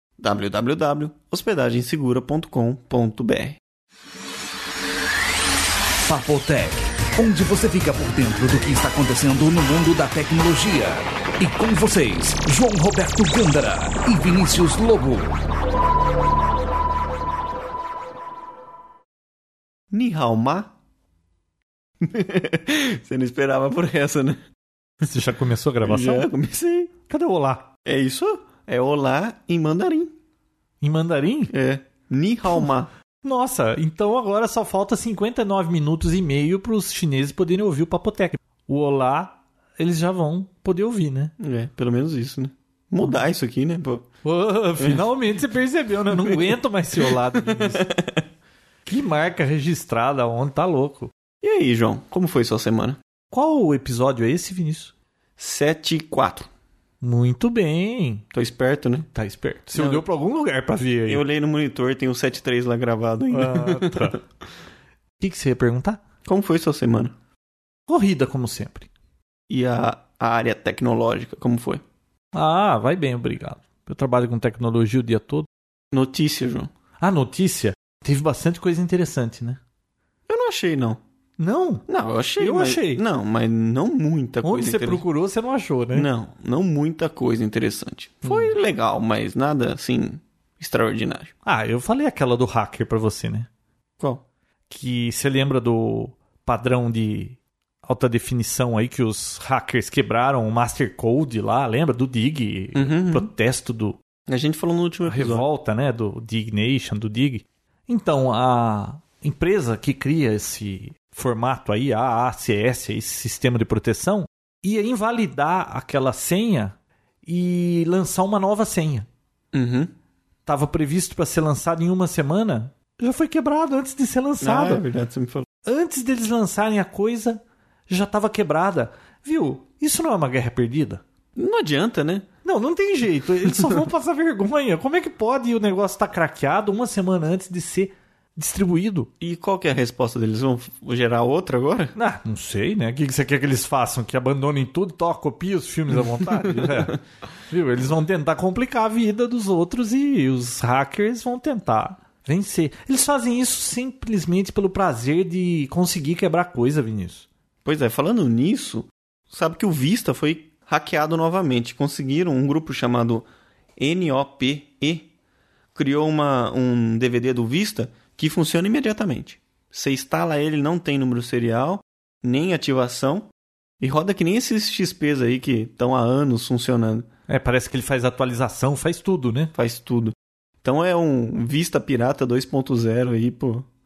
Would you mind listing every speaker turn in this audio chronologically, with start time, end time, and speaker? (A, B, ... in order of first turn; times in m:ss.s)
0:00.2-0:03.6 A
0:06.1-0:15.4 B
0:19.9-0:20.7 A
0:22.0-0:24.4 A
0:25.0-0:26.3 C
0:25.8-0:26.9 A
0:27.1-0:27.7 C
0:27.9-0:30.1 A
0:30.8-0:31.5 C
0:31.5-0:32.9 A
0:33.2-0:41.3 C
0:41.4-0:44.1 A
0:44.2-0:47.9 C
0:46.1-0:48.2 A
0:48.8-0:51.1 C
0:51.4-0:53.0 A
0:53.3-0:54.9 C
0:55.4-0:56.5 A
0:57.0-0:58.2 C
0:58.3-0:59.1 A
0:59.1-1:01.2 C
0:59.7-1:00.0 A
1:01.1-1:04.2 A
1:03.3-1:04.2 C
1:05.2-1:06.0 C
1:06.2-1:07.2 A
1:07.9-1:08.9 C
1:09.5-1:11.8 A
1:12.3-1:15.5 C
1:15.9-1:16.7 A
1:17.0-1:19.6 C
1:20.3-1:21.0 A
1:21.4-1:21.9 C
1:21.9-1:25.0 A
1:22.4-1:23.0 C
1:24.4-1:26.1 C
1:25.9-1:31.3 A
1:28.2-1:28.5 C
1:31.4-1:33.5 C
1:34.7-1:44.0 C
1:42.8-1:43.3 A
1:44.3-1:45.5 A
1:45.0-1:59.1 C
1:59.5-1:59.9 A
2:00.5-2:04.8 C
2:04.4-2:05.5 A
2:05.6-2:11.0 C
2:11.4-2:12.3 A
2:12.4-2:19.1 C
2:13.4-2:13.8 A
2:19.2-2:21.9 A
2:22.0-2:37.3 C
2:26.5-2:26.8 A
2:37.6-2:43.2 A
2:43.8-2:45.1 A
2:45.8-2:53.3 A
2:53.8-2:57.1 A
2:57.3-2:59.5 C
2:59.5-3:03.7 A